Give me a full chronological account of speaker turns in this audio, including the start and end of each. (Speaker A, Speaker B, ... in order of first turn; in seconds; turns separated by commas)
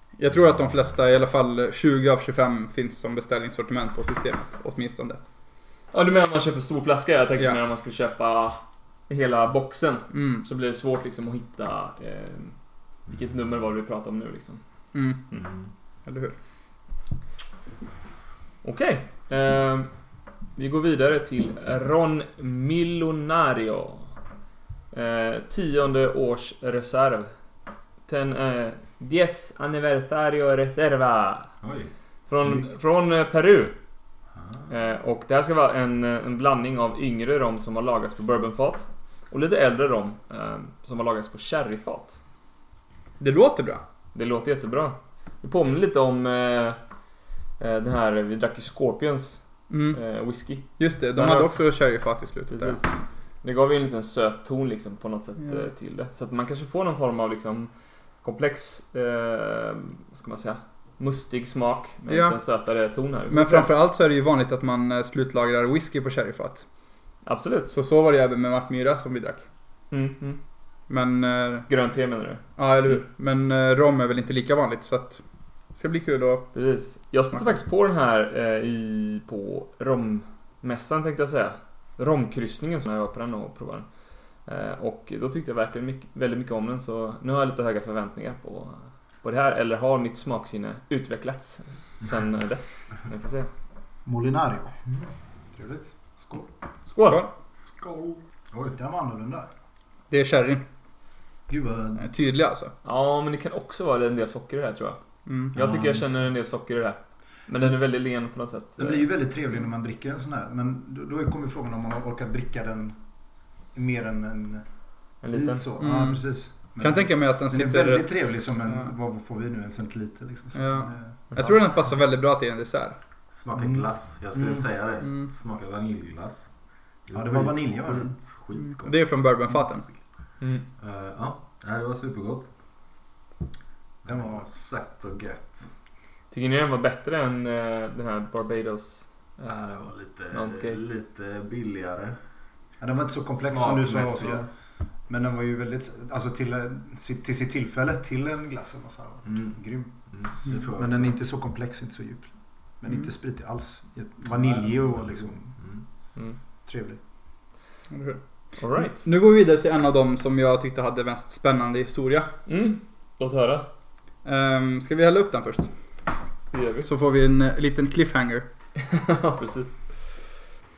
Speaker A: 0.2-5.2, Speaker B: 5.9-8.6, Speaker B: 9.1-12.6, Speaker A: 10.1-10.4, Speaker B: 13.1-14.6, Speaker A: 14.9-15.2, Speaker A: 16.1-16.4, Speaker B: 18.6-19.9, Speaker B: 20.6-24.1, Speaker B: 24.9-27.3, Speaker B: 28.1-31.5, Speaker C: 31.6-31.9, Speaker B: 32.3-33.8, Speaker C: 34.4-34.6, Speaker B: 34.7-42.2, Speaker A: 43.2-43.8, Speaker B: 44.1-46.8, Speaker B: 47.6-51.6, Speaker A: 49.7-50.0, Speaker A: 50.8-52.8, Speaker B: 52.5-57.7, Speaker B: 58.2-63.7, Speaker A: 62.1-62.4, Speaker A: 63.3-66.7, Speaker B: 67.2-67.8, Speaker A: 67.7-69.4, Speaker B: 69.9-70.4, Speaker A: 70.9-71.7, Speaker B: 71.7-73.0, Speaker A: 72.6-75.2, Speaker A: 75.8-76.5, Speaker B: 76.5-83.9, Speaker B: 84.5-93.5, Speaker D: 94.0-94.8, Speaker D: 95.5-96.5, Speaker B: 96.9-97.3, Speaker A: 97.0-97.3, Speaker C: 97.7-98.8, Speaker D: 98.7-99.5, Speaker A: 100.1-100.6, Speaker D: 101.5-102.1, Speaker A: 102.0-102.7, Speaker B: 102.8-105.0, Speaker A: 105.3-105.5, Speaker B: 105.5-109.1, Speaker D: 105.5-105.9, Speaker D: 108.8-113.0, Speaker D: 113.7-114.6, Speaker B: 115.2-115.6, Speaker D: 115.3-121.1, Speaker A: 115.8-118.2, Speaker A: 120.5-123.0, Speaker C: 123.3-126.5, Speaker D: 123.6-123.8, Speaker D: 124.4-124.6, Speaker A: 125.0-125.3, Speaker C: 127.1-129.1, Speaker D: 127.1-128.1, Speaker A: 128.6-129.9, Speaker C: 130.8-132.5, Speaker C: 134.1-135.7, Speaker D: 134.1-134.5, Speaker B: 136.3-140.8, Speaker C: 139.5-142.2, Speaker D: 142.8-144.5, Speaker C: 143.4-144.4, Speaker D: 145.1-149.9, Speaker C: 149.3-149.6, Speaker C: 150.1-151.2, Speaker D: 150.8-155.6, Speaker C: 154.4-155.8, Speaker D: 156.7-157.0, Speaker A: 157.9-158.2, Speaker B: 158.6-159.1, Speaker A: 158.8-162.3, Speaker B: 162.5-163.7, Speaker A: 164.2-165.7, Speaker B: 166.5-166.9, Speaker A: 166.8-168.5, Speaker B: 168.8-170.2